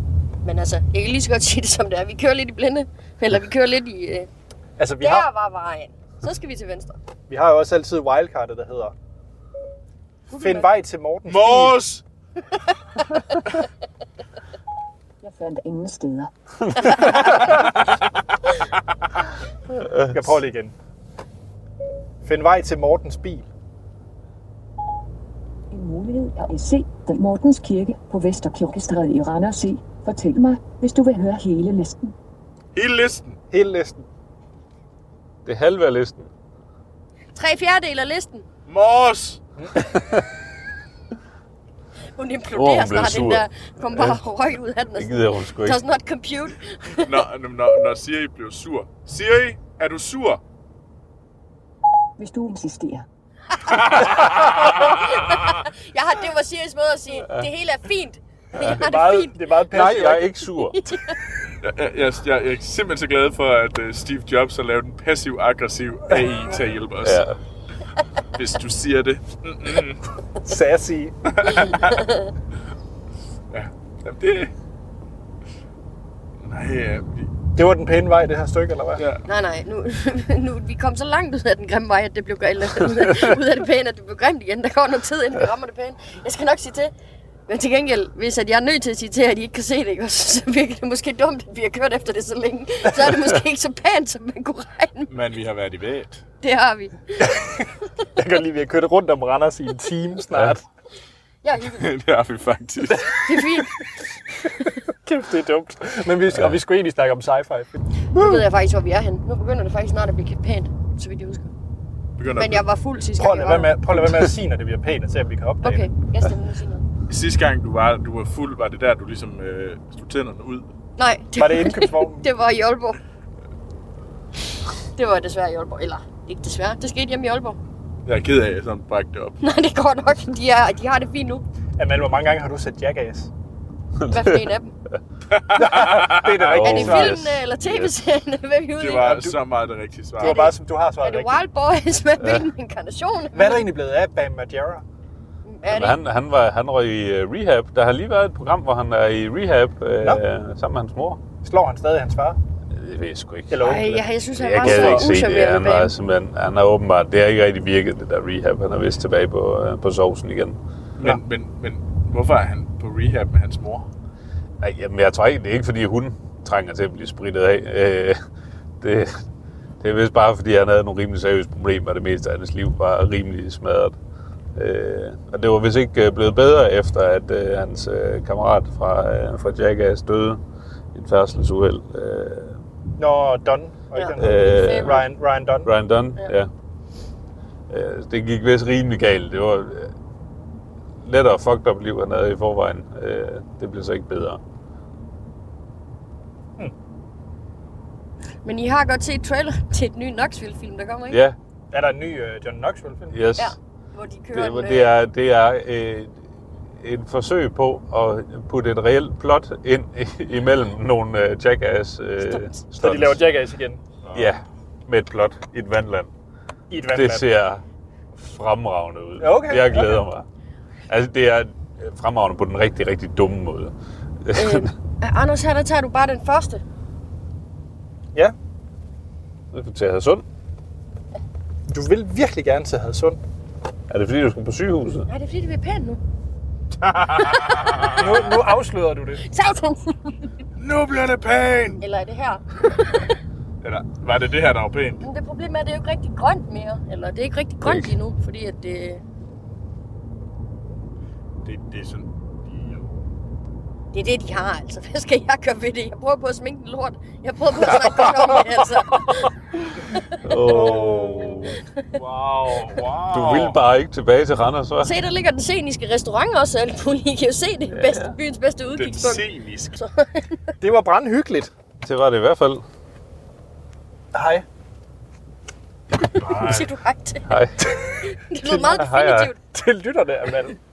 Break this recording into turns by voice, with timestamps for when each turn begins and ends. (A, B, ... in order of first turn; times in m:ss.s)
0:00.4-0:04.3 A
0:04.8-0:05.3 B
0:05.0-0:07.0 A
0:07.3-0:08.9 B
0:10.3-0:10.7 A
0:10.4-0:11.8 B
0:11.3-0:12.0 C
0:13.0-0:13.7 A
0:15.2-0:17.6 D
0:16.7-0:17.5 A
0:16.9-0:17.2 E
0:19.7-0:20.4 E
0:20.1-0:20.7 B
0:22.2-0:23.4 B
0:25.7-0:32.1 D
0:32.7-0:33.4 C
0:33.5-0:34.0 B
0:35.4-0:36.3 E
0:37.3-0:38.4 A
0:38.7-0:39.4 C
0:42.2-0:47.2 A
0:42.5-0:44.2 E
0:44.9-0:45.8 E
0:47.0-0:50.4 C
0:52.2-0:53.0 D
0:53.5-0:59.4 A
0:53.7-0:55.1 C
0:58.6-0:58.8 E
0:58.6-1:00.3 B
0:59.7-1:00.8 E
1:00.5-1:01.2 A
1:01.6-1:07.2 C
1:07.0-1:07.4 E
1:08.3-1:10.0 C
1:10.4-1:11.6 B
1:11.3-1:12.0 C
1:11.4-1:12.3 A
1:13.5-1:14.5 C
1:16.4-1:17.3 C
1:17.6-1:19.0 B
1:19.0-1:19.2 C
1:19.2-1:26.9 A
1:27.5-1:35.1 A
1:35.1-1:36.2 C
1:36.4-1:37.4 A
1:38.2-1:40.6 B
1:41.4-1:41.9 A
1:41.7-1:43.3 C
1:43.1-1:43.7 A
1:44.9-1:48.4 B
1:46.3-1:46.6 E
1:48.1-1:51.5 A
1:52.2-1:52.6 C
1:52.3-1:53.8 A
1:53.2-1:55.9 B
1:53.9-1:54.3 E
1:55.6-1:56.8 A
1:57.1-2:00.6 C
2:01.0-2:03.0 A
2:01.4-2:02.3 B
2:04.9-2:07.6 A
2:08.0-2:09.4 C
2:09.4-2:11.4 A
2:11.8-2:13.3 B
2:14.0-2:14.4 E
2:14.0-2:14.7 A
2:15.3-2:16.6 C
2:15.5-2:17.2 B
2:16.4-2:17.9 E
2:16.5-2:19.4 A
2:18.8-2:20.5 C
2:20.2-2:21.4 B
2:20.2-2:23.7 A
2:22.2-2:22.5 E
2:23.3-2:24.8 B
2:25.4-2:26.0 A
2:25.7-2:31.2 E
2:31.4-2:32.4 B
2:32.7-2:33.8 E
2:33.5-2:34.0 B
2:33.6-2:35.9 A
2:34.3-2:40.6 E
2:34.6-2:35.1 C
2:41.0-2:43.9 C
2:44.6-2:48.2 E
2:48.8-2:49.2 E
2:49.8-2:53.9 E
2:54.5-3:00.4 E
3:00.9-3:02.6 E
3:03.0-3:05.7 B
3:03.9-3:05.0 A
3:04.2-3:05.1 E
3:05.6-3:06.5 E
3:07.7-3:09.9 E
3:11.0-3:14.4 E
3:18.4-3:21.2 A
3:21.1-3:21.4 E
3:21.7-3:23.2 B
3:23.1-3:23.5 E
3:23.4-3:24.9 A
3:24.3-3:26.2 E
3:26.8-3:33.2 E
3:32.2-3:32.6 A
3:32.8-3:33.8 B
3:34.0-3:34.4 C
3:34.1-3:36.1 E
3:36.7-3:37.2 B
3:36.8-3:37.6 E
3:38.1-3:40.3 E
3:39.2-3:40.0 B
3:40.9-3:43.7 E
3:44.2-3:44.7 E
3:44.3-3:46.6 A
3:49.5-3:50.2 E
3:51.7-3:53.2 B
3:53.9-3:55.1 E
3:55.1-3:56.0 A
3:56.8-3:58.3 C
3:57.9-3:59.2 B
3:59.2-4:00.2 A
4:00.6-4:01.8 C
4:01.8-4:03.2 A
4:03.6-4:05.0 C
4:05.0-4:09.0 A
4:07.6-4:07.9 E
4:11.4-4:12.9 C
4:13.9-4:19.3 A
4:20.2-4:21.6 E
4:20.3-4:21.6 B
4:21.9-4:23.6 C
4:23.1-4:24.9 E
4:24.8-4:30.5 A
4:27.7-4:28.2 E
4:28.8-4:29.8 C
4:30.6-4:31.5 B
4:31.8-4:32.6 E
4:34.1-4:34.4 B
4:36.0-4:36.7 C
4:36.0-4:37.3 A
4:37.2-4:37.6 E
4:38.0-4:39.4 A
4:38.6-4:39.3 E
4:39.5-4:40.6 B